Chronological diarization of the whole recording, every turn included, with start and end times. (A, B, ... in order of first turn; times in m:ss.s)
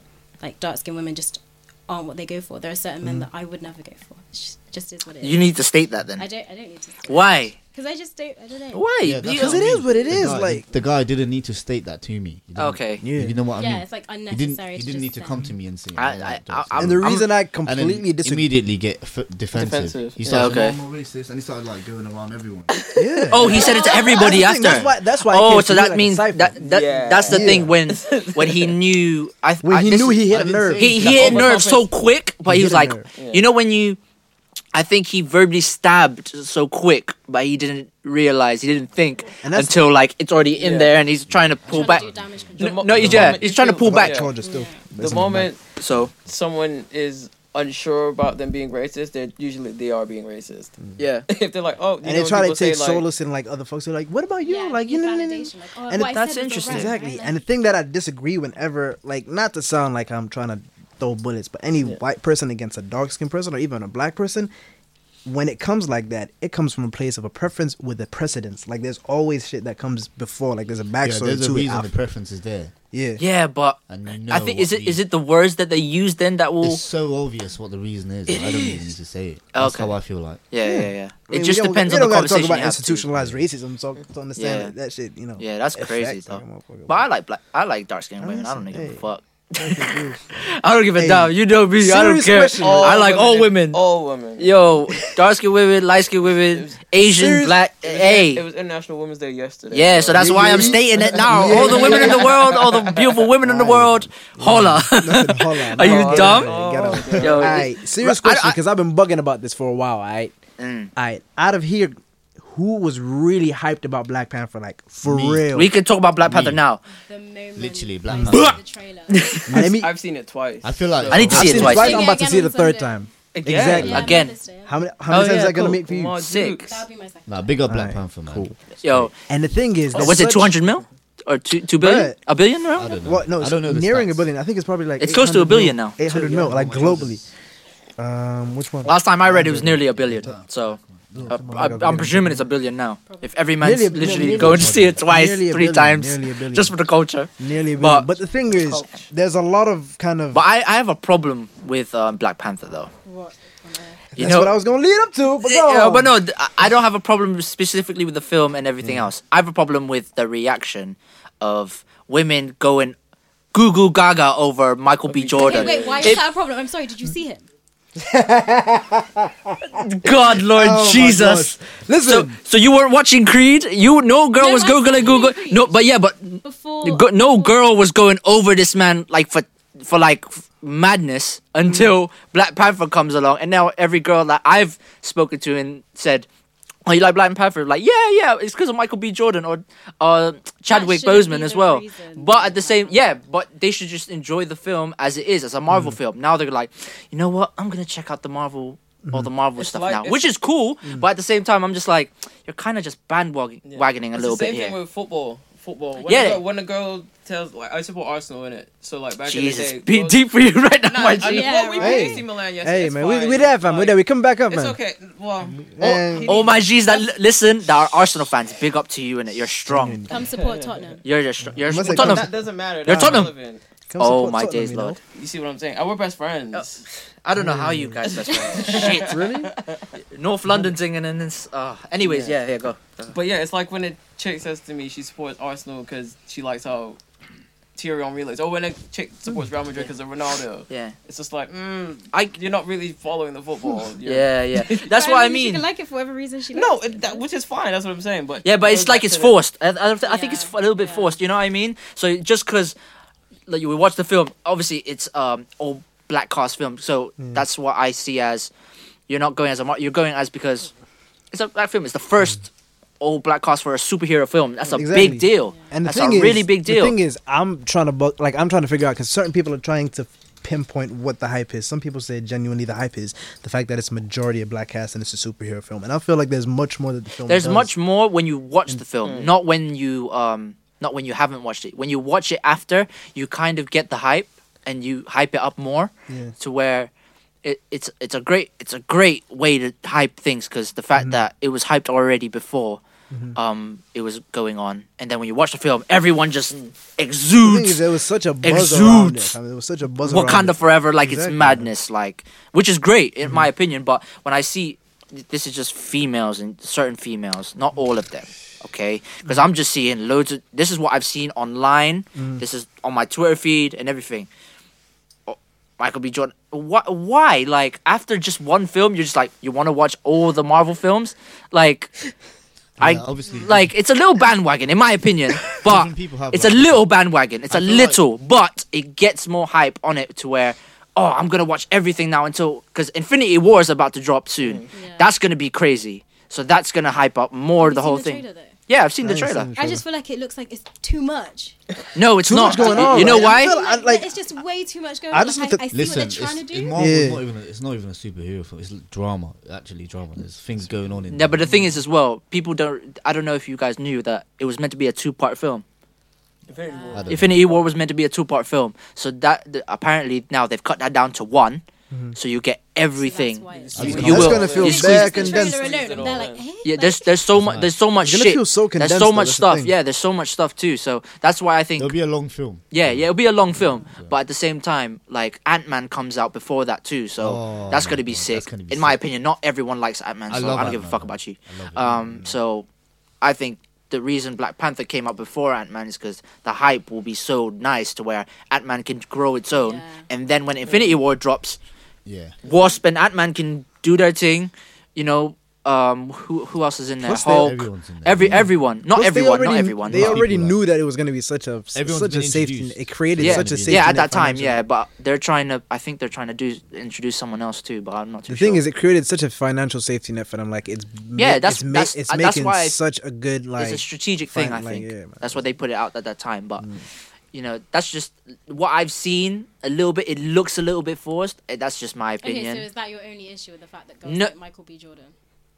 0:00.4-0:05.5 A
0:05.2-0:06.3 B
0:06.2-0:08.8 A
0:07.1-0:07.6 B
0:08.7-0:09.7 B
0:09.0-0:22.7 C
0:09.2-0:10.6 D
0:12.6-0:13.0 B
0:13.0-0:13.4 D
0:13.6-0:15.4 A
0:16.0-0:17.3 B
0:16.8-0:18.5 D
0:19.5-0:20.5 E
0:20.3-0:20.8 B
0:23.0-0:26.6 D
0:23.3-0:34.0 B
0:23.5-0:24.2 A
0:26.6-0:28.8 E
0:27.3-0:27.7 D
0:29.6-0:31.1 D
0:30.3-0:31.6 C
0:31.0-0:31.9 E
0:32.5-0:33.1 D
0:33.1-0:33.5 E
0:34.7-0:42.1 B
0:39.4-0:39.8 D
0:40.6-0:41.0 E
0:41.3-0:43.3 C
0:41.7-0:42.9 A
0:42.6-0:44.4 E
0:42.6-0:44.3 B
0:43.0-0:45.5 D
0:44.4-0:44.8 A
0:45.0-0:45.6 E
0:45.8-0:46.1 B
0:46.2-0:50.8 E
0:51.0-0:51.3 B
0:51.3-0:53.1 E
0:52.0-1:04.5 D
0:54.4-0:57.4 A
0:56.1-0:57.0 B
1:05.2-1:11.9 D
1:11.0-1:12.7 C
1:12.9-1:13.2 D
1:13.2-1:16.8 B
1:13.9-1:15.0 C
1:16.6-1:20.4 C
1:18.3-1:18.7 B
1:19.5-1:19.9 B
1:20.5-1:23.0 B
1:20.6-1:27.0 D
1:23.1-1:23.4 C
1:24.4-1:24.7 B
1:25.4-1:33.8 B
1:28.2-1:29.0 D
1:29.6-1:33.1 D
1:32.6-1:34.5 E
1:34.4-1:38.4 B
1:36.4-1:36.8 E
1:37.0-1:37.6 D
1:37.8-1:43.3 E
1:39.7-1:46.5 B
1:40.1-1:42.3 D
1:43.4-1:50.4 D
1:45.8-1:47.7 E
1:47.1-1:48.6 B
1:50.6-1:50.9 B
1:51.0-1:55.7 D
1:55.0-1:55.5 C
1:55.5-1:56.8 B
1:56.2-1:56.6 C
1:56.9-1:59.4 A
1:57.6-1:58.6 C
1:58.1-1:58.4 D
1:59.1-1:59.7 B
1:59.5-1:59.9 D
1:59.6-2:01.7 E
2:00.6-2:02.1 C
2:01.1-2:02.1 B
2:01.3-2:06.2 D
2:01.6-2:03.0 A
2:03.3-2:04.1 E
2:03.8-2:04.4 B
2:03.8-2:04.8 A
2:05.1-2:06.6 B
2:05.2-2:06.8 E
2:06.6-2:07.6 A
2:07.3-2:09.1 C
2:07.7-2:08.6 D
2:08.8-2:09.1 B
2:09.3-2:10.7 D
2:09.9-2:13.0 B
2:11.8-2:12.2 D
2:12.8-2:14.3 C
2:13.0-2:17.2 D
2:15.0-2:16.0 B
2:16.0-2:17.3 C
2:18.0-2:20.4 D
2:18.8-2:28.1 B
2:19.8-2:21.4 C
2:21.1-2:22.5 D
2:23.1-2:23.3 A
2:23.6-2:26.7 D
2:24.2-2:25.0 C
2:27.4-2:30.4 D
2:28.6-2:29.0 B
2:30.3-2:32.9 B
2:33.0-2:34.0 A
2:34.2-2:34.5 B
2:34.2-2:36.1 D
2:35.4-2:43.0 B
2:43.5-2:46.2 B
2:45.1-2:46.2 E
2:45.4-2:47.4 A
2:48.0-2:49.8 D
2:49.9-3:06.3 B
2:50.5-2:52.4 D
2:54.4-2:55.8 A
2:56.4-2:57.6 A
3:06.9-3:24.8 B
3:10.7-3:13.0 A
3:15.7-3:16.0 D
3:19.6-3:20.3 E
3:23.6-3:30.2 E
3:26.1-3:26.4 B
3:29.3-3:31.7 B
3:30.9-3:37.1 E
3:31.2-3:32.2 A
3:31.8-3:34.8 D
3:35.6-3:36.3 D
3:35.8-3:40.1 B
3:39.7-3:40.1 D
3:40.1-3:41.0 A
3:40.4-3:40.8 E
3:41.0-3:42.3 B
3:41.4-3:43.3 D
3:41.8-3:43.6 E
3:42.8-3:43.3 B
3:43.9-3:45.0 D
3:44.0-3:45.0 B
3:45.2-3:46.8 E
3:47.2-3:49.2 B
3:47.4-3:48.2 D
3:48.0-3:49.9 E
3:48.8-3:49.5 D
3:50.1-3:53.2 B
3:52.0-3:52.4 E
3:53.1-3:57.0 E
3:57.8-4:04.8 E
4:00.7-4:01.0 B
4:04.0-4:05.6 B
4:04.8-4:07.2 A
4:06.5-4:09.4 E
4:08.4-4:12.8 B
4:10.1-4:11.2 A
4:13.5-4:18.5 B
4:19.1-4:20.7 B
4:21.3-4:22.5 B
4:23.0-4:27.0 B
4:24.8-4:37.7 D
4:25.4-4:25.7 A
4:37.3-4:46.9 B
4:39.0-4:39.3 E
4:46.1-4:46.3 D
4:47.4-4:52.8 B
4:51.0-4:51.2 D
4:53.4-4:57.8 B
4:57.4-5:01.7 D
4:58.4-4:59.4 B
5:00.0-5:14.3 B
5:15.3-5:21.9 B
5:22.8-5:23.7 C
5:22.8-5:39.5 B
5:25.5-5:26.9 C
5:27.5-5:28.0 C
5:34.4-5:34.7 E
5:34.7-5:35.1 A
5:37.6-5:38.6 A
5:39.0-5:39.8 D
5:39.6-5:41.6 A
5:42.0-5:43.6 B
5:42.2-5:44.1 D
5:42.5-5:46.8 A
5:45.1-5:45.6 D
5:45.7-5:51.6 C
5:46.8-5:47.2 D
5:51.1-5:55.6 B
5:56.5-5:57.6 E
5:56.6-5:57.0 A
5:56.9-5:57.4 C
5:57.1-6:01.6 B
6:01.9-6:02.2 D
6:02.2-6:05.1 B
6:03.0-6:07.2 A
6:03.5-6:06.4 E
6:03.8-6:04.6 C
6:03.8-6:05.9 D
6:06.6-6:12.0 B
6:07.3-6:07.7 C
6:08.0-6:09.7 D
6:11.8-6:14.2 C
6:12.7-6:22.7 B
6:17.2-6:19.0 C
6:20.3-6:22.4 C
6:23.2-6:31.6 B
6:29.6-6:30.0 A
6:30.7-6:31.0 E
6:32.0-6:32.4 C
6:32.4-6:32.7 E
6:32.5-6:40.2 B
6:37.0-6:38.5 C
6:38.2-6:44.6 D
6:39.9-6:40.6 C
6:41.7-6:44.3 C
6:43.2-6:48.6 B
6:48.3-6:55.5 D
6:51.2-6:52.8 B
6:53.6-6:56.6 B
6:57.3-7:02.7 B
7:02.2-7:05.1 A
7:04.1-7:04.3 B